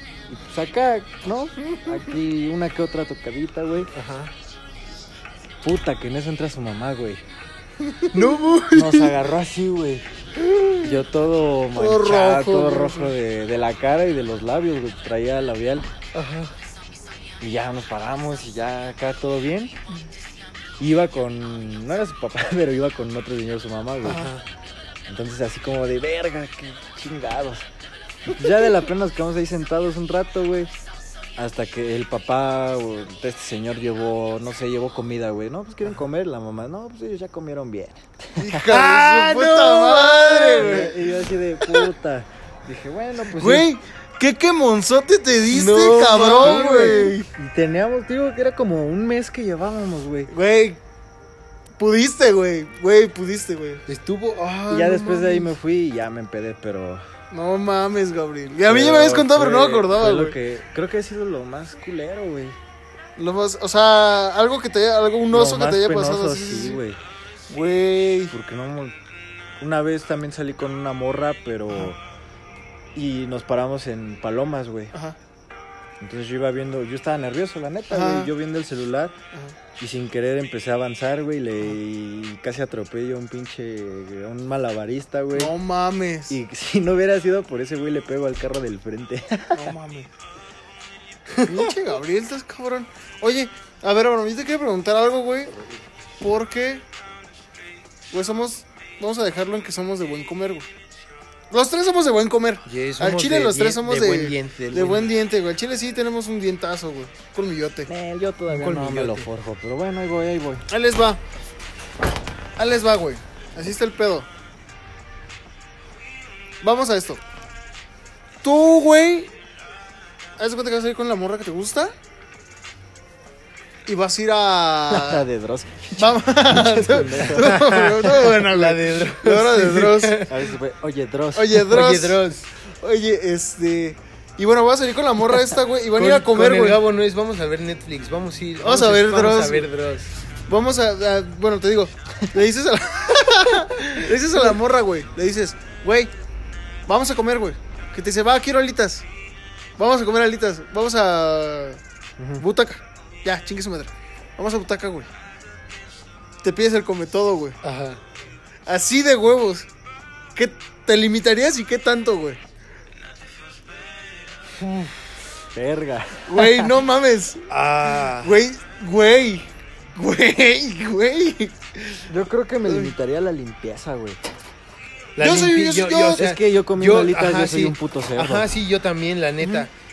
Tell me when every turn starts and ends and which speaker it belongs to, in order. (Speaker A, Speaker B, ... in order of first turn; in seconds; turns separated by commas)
Speaker A: 0.3-3.9, Speaker B: 3.9-4.3, Speaker A: 5.6-7.2, Speaker C: 7.9-8.4, Speaker B: 8.1-9.0, Speaker A: 8.7-10.1, Speaker C: 10.6-10.9, Speaker A: 10.8-15.9, Speaker C: 11.8-13.1, Speaker B: 16.1-16.5, Speaker A: 17.4-19.8, Speaker A: 20.8-24.3, Speaker B: 24.1-24.4, Speaker C: 24.1-24.3, Speaker A: 25.1-27.7, Speaker A: 28.3-30.7, Speaker A: 31.4-38.8, Speaker C: 38.4-41.0, Speaker B: 38.7-40.9, Speaker A: 39.6-43.7, Speaker C: 43.4-47.3, Speaker B: 45.5-47.0, Speaker A: 46.0-50.3, Speaker C: 50.3-50.8, Speaker C: 51.8-53.8, Speaker B: 53.9-55.2, Speaker A: 54.7-57.0, Speaker C: 55.0-55.4, Speaker C: 57.3-60.4, Speaker A: 58.7-62.6, Speaker C: 63.2-66.8, Speaker A: 65.3-67.0, Speaker C: 67.5-68.3, Speaker A: 68.3-69.0, Speaker A: 69.6-72.0, Speaker A: 73.0-75.0, Speaker A: 76.0-79.2, Speaker C: 77.9-78.3, Speaker A: 79.8-85.5, Speaker C: 85.3-86.4, Speaker A: 86.3-89.7, Speaker C: 89.5-90.1, Speaker C: 91.4-95.6, Speaker C: 96.2-96.8, Speaker C: 98.1-100.7, Speaker C: 101.5-107.9, Speaker B: 102.7-105.1, Speaker A: 107.9-110.7, Speaker B: 108.5-109.3, Speaker C: 110.7-111.2, Speaker C: 112.6-114.3, Speaker C: 116.6-117.2, Speaker C: 118.4-119.3, Speaker C: 120.4-121.9, Speaker C: 123.9-125.2, Speaker A: 124.9-127.5, Speaker C: 126.0-130.2, Speaker B: 127.4-130.3, Speaker A: 130.3-131.7, Speaker C: 131.3-136.8, Speaker B: 131.6-132.5, Speaker B: 135.9-140.1, Speaker C: 138.6-139.7, Speaker C: 140.5-146.1, Speaker C: 146.9-149.1, Speaker C: 149.8-151.8, Speaker C: 152.4-155.1, Speaker C: 156.4-157.6, Speaker B: 157.6-158.0, Speaker C: 158.7-159.7, Speaker C: 160.4-162.4, Speaker A: 164.6-164.9, Speaker A: 165.5-166.7, Speaker C: 166.3-167.5, Speaker B: 167.5-168.4, Speaker C: 168.1-172.0, Speaker A: 172.1-174.2, Speaker B: 175.2-179.7, Speaker C: 175.2-176.3, Speaker A: 176.2-178.5, Speaker C: 179.4-179.7